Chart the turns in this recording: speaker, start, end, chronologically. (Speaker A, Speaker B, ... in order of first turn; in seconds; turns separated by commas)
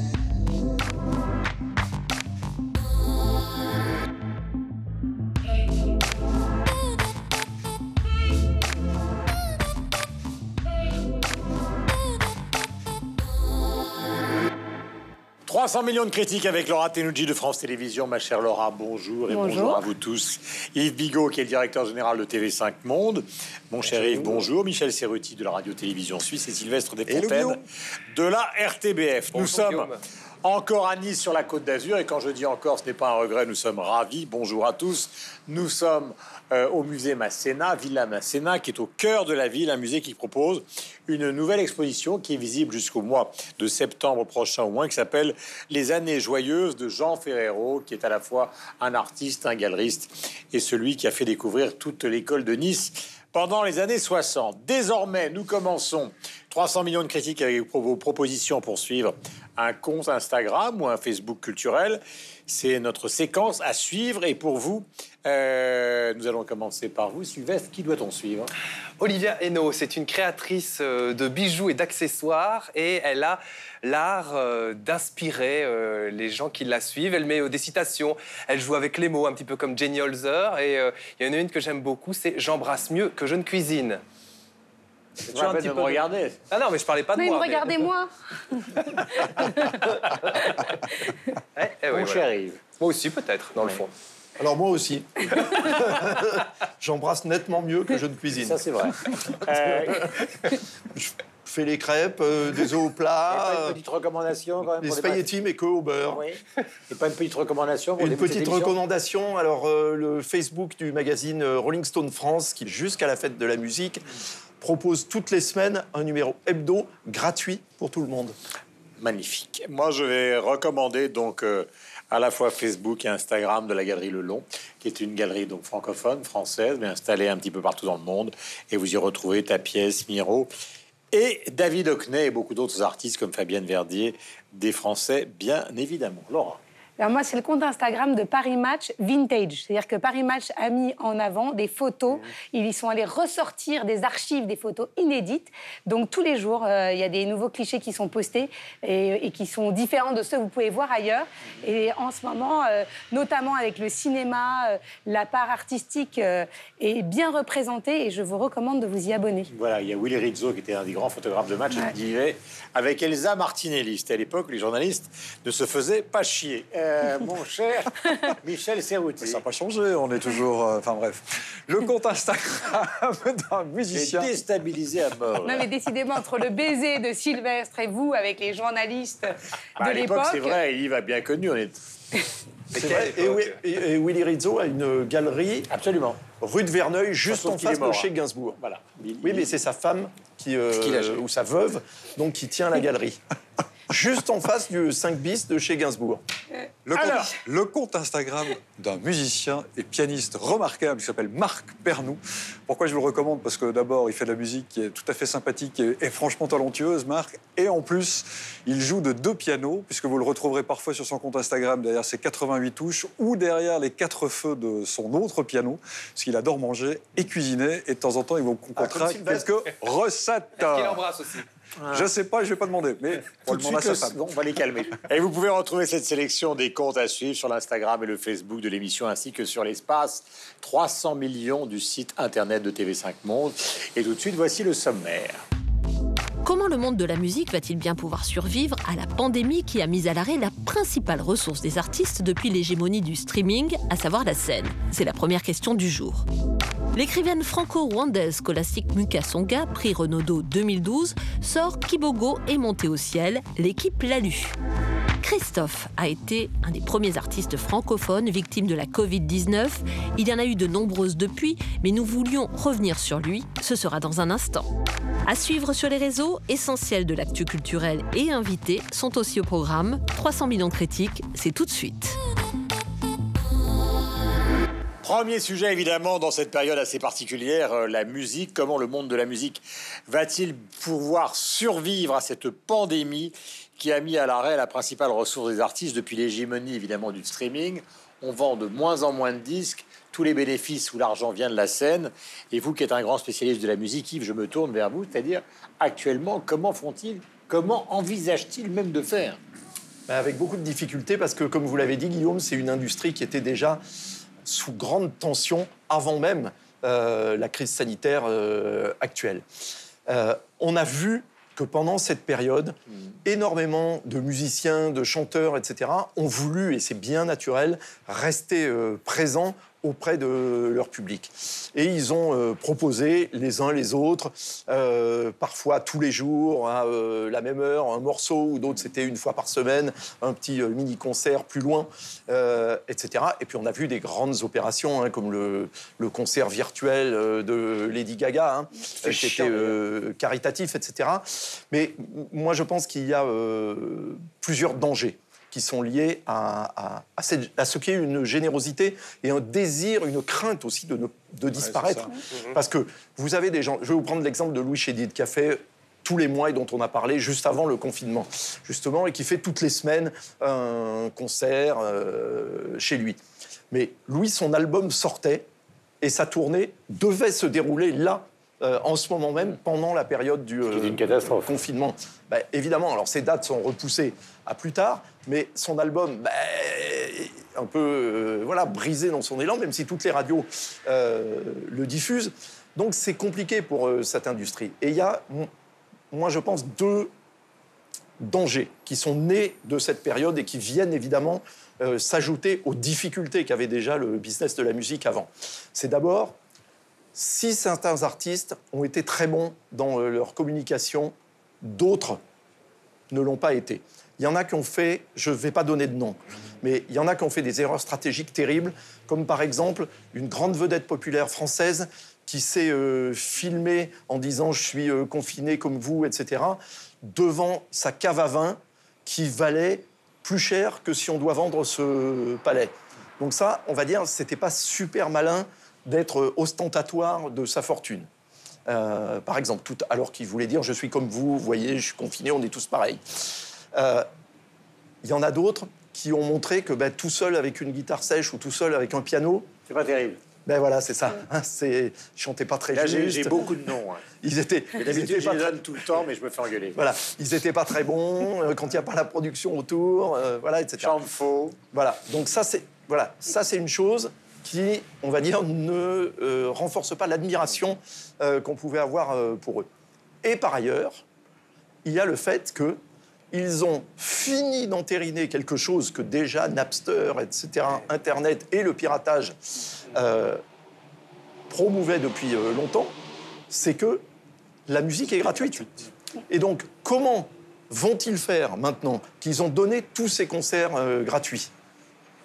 Speaker A: 15.4-27.6, Speaker B: 19.3-19.8, Speaker C: 27.1-27.6, Speaker A: 28.1-29.9, Speaker D: 29.3-30.0, Speaker A: 30.4-68.5, Speaker D: 69.0-84.0, Speaker D: 85.3-87.8, Speaker A: 85.3-86.3, Speaker B: 87.2-89.8, Speaker D: 91.5-92.2, Speaker A: 91.9-92.6, Speaker D: 92.8-93.9, Speaker E: 94.4-98.6, Speaker A: 98.4-100.2, Speaker E: 99.6-100.3, Speaker E: 101.0-103.8, Speaker A: 103.3-105.2, Speaker E: 104.8-106.2, Speaker A: 106.1-108.8, Speaker E: 108.0-114.0, Speaker E: 114.6-118.4, Speaker A: 119.0-130.5, Speaker A: 131.1-136.6, Speaker B: 137.0-159.5, Speaker A: 159.5-169.4, Speaker C: 169.2-174.3, Speaker A: 173.9-175.7, Speaker B: 175.4-180.6, Speaker A: 179.8-181.8, Speaker D: 182.7-183.6, Speaker E: 182.7-185.7, Speaker A: 185.7-186.2, Speaker E: 186.4-188.6, Speaker A: 187.2-189.5, Speaker E: 189.2-193.2, Speaker E: 193.9-196.2, Speaker C: 196.8-221.0, Speaker A: 196.9-197.3, Speaker E: 218.8-219.5, Speaker D: 220.6-221.4, Speaker A: 221.8-222.1, Speaker C: 221.9-224.2, Speaker A: 223.4-235.4, Speaker F: 236.4-246.2, Speaker F: 246.9-254.6, Speaker F: 255.2-264.7, Speaker F: 265.2-272.2, Speaker A: 275.0-299.4, Speaker E: 300.1-303.8, Speaker E: 304.4-309.4, Speaker E: 310.1-363.2, Speaker A: 339.1-339.7, Speaker C: 351.6-352.1, Speaker E: 363.7-365.5, Speaker E: 366.0-385.5, Speaker A: 370.7-371.5, Speaker E: 386.1-387.1, Speaker E: 388.2-396.4, Speaker E: 397.1-402.2, Speaker E: 403.1-428.1, Speaker E: 428.7-434.1, Speaker E: 435.0-439.5, Speaker A: 439.7-440.2, Speaker E: 440.4-443.6, Speaker A: 442.7-444.1, Speaker E: 444.2-445.8, Speaker A: 444.8-446.8, Speaker E: 446.7-451.0, Speaker A: 450.8-451.6, Speaker E: 451.7-459.7, Speaker E: 460.2-461.0, Speaker E: 461.8-462.8, Speaker E: 463.3-469.4, Speaker E: 469.9-470.4, Speaker E: 471.5-472.9, Speaker E: 473.5-474.0, Speaker E: 474.7-475.7, Speaker E: 476.3-481.5